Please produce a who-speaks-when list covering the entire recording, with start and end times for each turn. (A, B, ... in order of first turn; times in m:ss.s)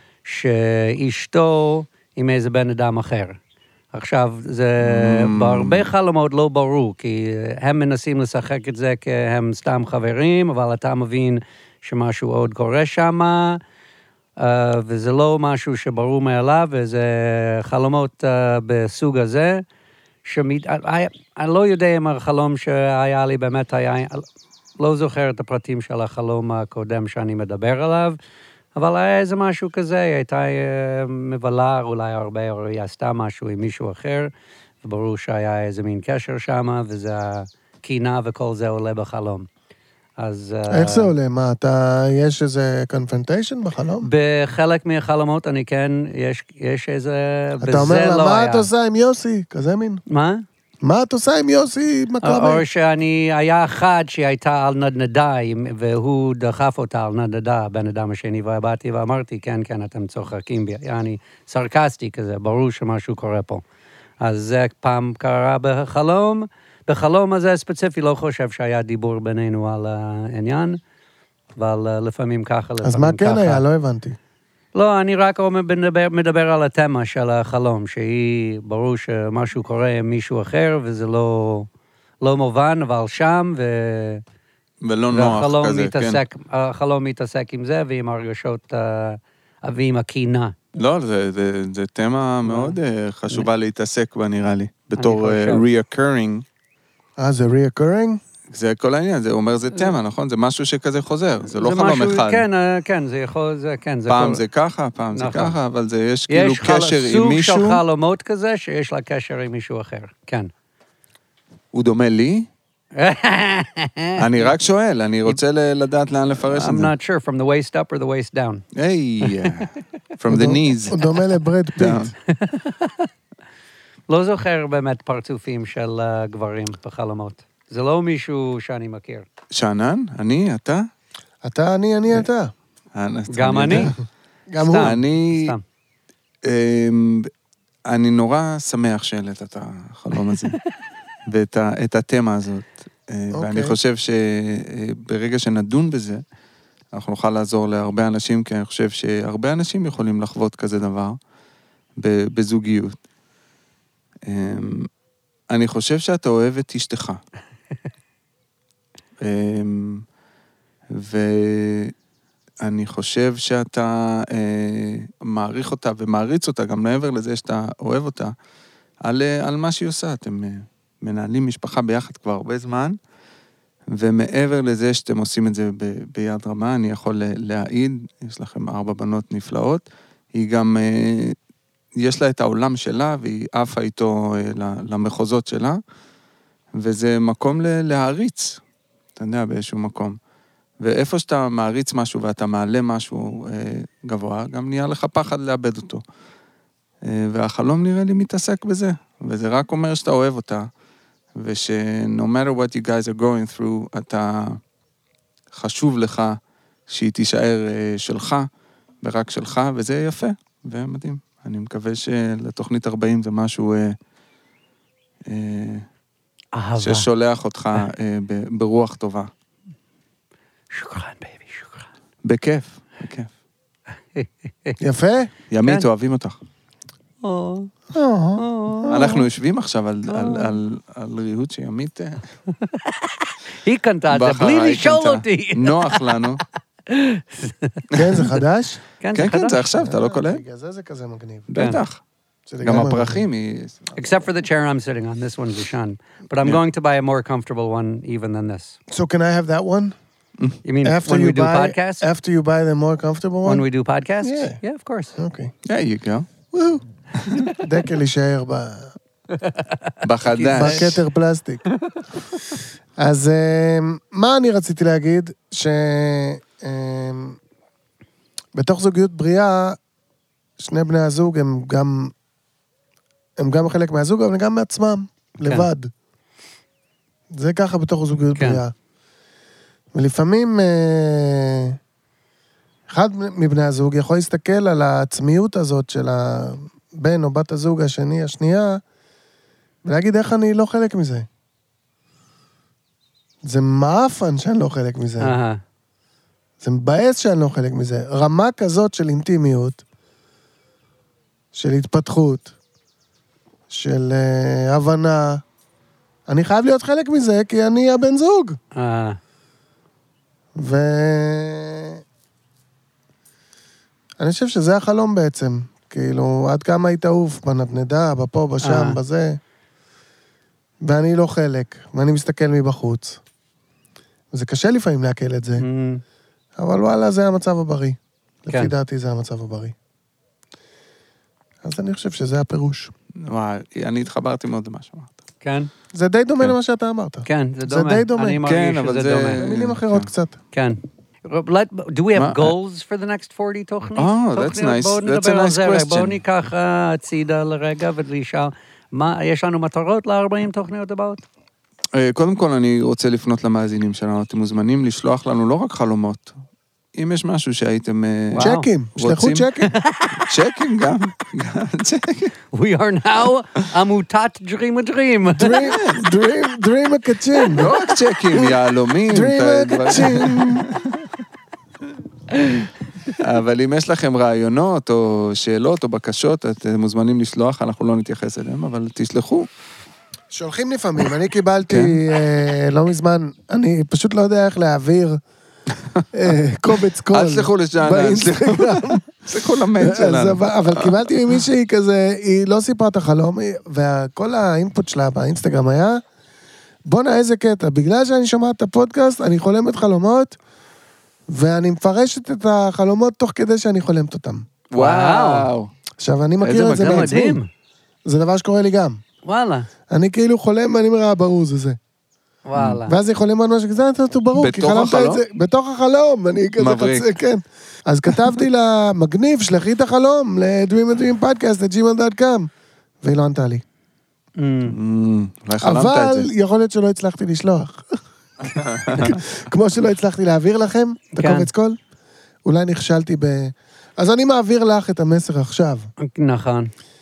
0:00.2-0:03.4 A
0:03.9-0:13.6 A
0:04.8-0:05.9 B
0:14.4-0:19.6 A
0:20.2-0:24.2 A
0:24.8-0:28.2 A
0:28.8-0:34.3 A
0:34.8-0:39.5 A
0:40.2-0:41.1 A
0:40.7-0:44.1 C
0:44.0-0:48.7 A
0:47.6-0:50.0 C
0:50.1-0:50.4 A
0:50.8-0:52.6 C
0:52.2-1:03.6 A
1:04.2-1:10.8 A
1:11.6-1:13.6 A
1:12.8-1:14.2 C
1:14.7-1:21.7 A
1:22.2-1:24.2 A
1:24.8-1:26.2 B
1:25.1-1:30.6 A
1:30.7-1:36.4 B
1:32.4-1:32.8 A
1:35.0-1:35.6 A
1:37.2-1:38.2 C
1:38.5-1:42.4 B
1:41.5-1:44.4 A
1:44.1-1:47.8 B
1:45.1-1:45.6 A
1:46.3-1:50.5 A
1:51.7-1:52.5 B
1:53.0-1:54.5 A
1:54.2-1:56.9 B
1:56.5-1:58.6 A
1:58.7-2:01.0 B
1:59.2-1:59.7 A
2:00.3-2:02.1 C
2:01.8-2:02.1 B
2:02.3-2:03.1 A
2:04.1-2:09.2 A
2:09.5-2:10.9 B
2:11.4-2:12.5 C
2:12.9-2:13.9 B
2:13.3-2:13.9 A
2:14.5-2:15.0 C
2:14.6-2:15.6 A
2:14.8-2:15.5 B
2:16.4-2:17.3 B
2:17.9-2:20.6 B
2:21.3-2:26.2 B
2:23.3-2:23.8 C
2:26.9-2:31.2 B
2:32.0-2:33.0 B
2:34.3-2:34.9 B
2:35.5-2:37.2 B
2:39.2-2:40.0 B
2:40.9-2:41.9 B
2:42.6-2:48.3 B
2:49.0-2:53.0 B
2:53.9-3:01.4 B
3:02.0-3:05.8 B
3:06.8-3:08.6 B
3:09.2-3:10.2 B
3:10.8-3:16.0 B
3:17.0-3:20.7 B
3:21.4-3:24.6 B
3:25.5-3:28.5 B
3:29.0-3:34.0 B
3:35.3-3:35.8 B
3:36.5-3:37.1 A
3:36.8-3:39.3 B
3:40.7-3:41.9 A
3:42.2-3:43.3 B
3:44.1-3:44.8 A
3:44.8-3:45.3 C
3:45.5-3:46.4 B
3:47.2-3:47.7 A
3:47.9-3:48.9 C
3:48.4-3:49.2 A
3:48.9-3:52.2 B
3:50.1-3:50.6 A
3:52.5-3:56.3 A
3:54.1-3:56.4 B
3:56.9-3:57.8 A
3:57.9-3:58.8 C
3:59.0-3:59.6 A
3:59.1-4:00.4 B
3:59.8-4:01.5 C
4:01.5-4:02.0 B
4:01.6-4:01.8 A
4:02.5-4:03.2 C
4:02.6-4:03.9 B
4:04.0-4:08.8 A
4:08.9-4:10.0 C
4:10.6-4:12.0 A
4:10.8-4:13.6 C
4:13.4-4:15.1 A
4:14.2-4:14.6 C
4:15.2-4:15.5 C
4:15.6-4:16.3 B
4:16.5-4:16.8 C
4:17.4-4:18.9 C
4:19.4-4:20.9 A
4:20.0-4:21.0 B
4:20.5-4:21.6 C
4:23.0-4:27.4 C
4:28.5-4:29.8 C
4:30.6-4:32.1 C
4:33.4-4:35.9 C
4:37.3-4:38.7 C
4:39.9-4:41.8 C
4:42.9-4:48.8 C
4:49.8-4:51.3 C
4:53.4-4:55.3 C
4:55.2-4:55.6 A
4:56.6-4:59.8 C
5:01.5-5:02.5 C
5:03.7-5:05.4 C
5:06.3-5:08.6 C
5:08.7-5:09.2 A
5:10.6-5:12.0 C
5:14.2-5:19.4 C
5:18.6-5:19.0 A
5:20.8-5:23.2 C
5:24.3-5:25.6 C
5:25.6-5:26.0 A
5:26.6-5:29.7 C
5:31.6-5:32.9 C
5:33.2-5:35.1 B
5:35.4-5:35.7 A
5:35.9-5:38.4 C
5:37.2-5:39.4 A
5:38.4-5:40.1 B
5:39.4-5:40.4 C
5:40.5-5:51.2 A
5:42.1-5:42.5 B
5:44.0-5:46.2 B
5:51.9-5:56.3 B
5:56.9-5:59.5 B
5:58.3-5:58.6 A
5:58.4-5:59.7 C
5:59.7-6:00.2 A
6:00.2-6:02.3 B
6:02.5-6:05.6 A
6:05.3-6:07.7 C
6:07.6-6:11.0 B
6:09.1-6:10.7 C
6:12.3-6:12.7 A
6:13.2-6:19.5 B
6:20.3-6:25.2 C
6:21.7-6:22.0 B
6:26.1-6:29.0 C
6:27.1-6:31.1 B
6:29.8-6:36.0 C
6:36.8-6:40.4 C
6:41.3-6:44.4 C
6:44.7-6:45.7 B
6:44.8-6:45.5 A
6:46.0-6:47.4 C
6:46.4-6:47.2 B
6:46.8-6:47.5 A
6:48.0-6:49.0 C
6:49.2-6:49.7 A
6:49.9-6:51.8 C
6:52.4-6:53.0 A
6:52.8-7:02.5 C
6:54.4-6:55.2 B
6:56.6-6:57.1 B
6:58.1-6:58.3 B
7:03.0-7:03.6 C
7:04.4-7:04.8 A
7:04.6-7:06.3 B
7:05.6-7:08.0 C
7:08.5-7:09.2 B
7:08.8-7:11.8 C
7:11.2-7:11.5 A
7:12.4-7:15.9 C
7:16.0-7:16.7 A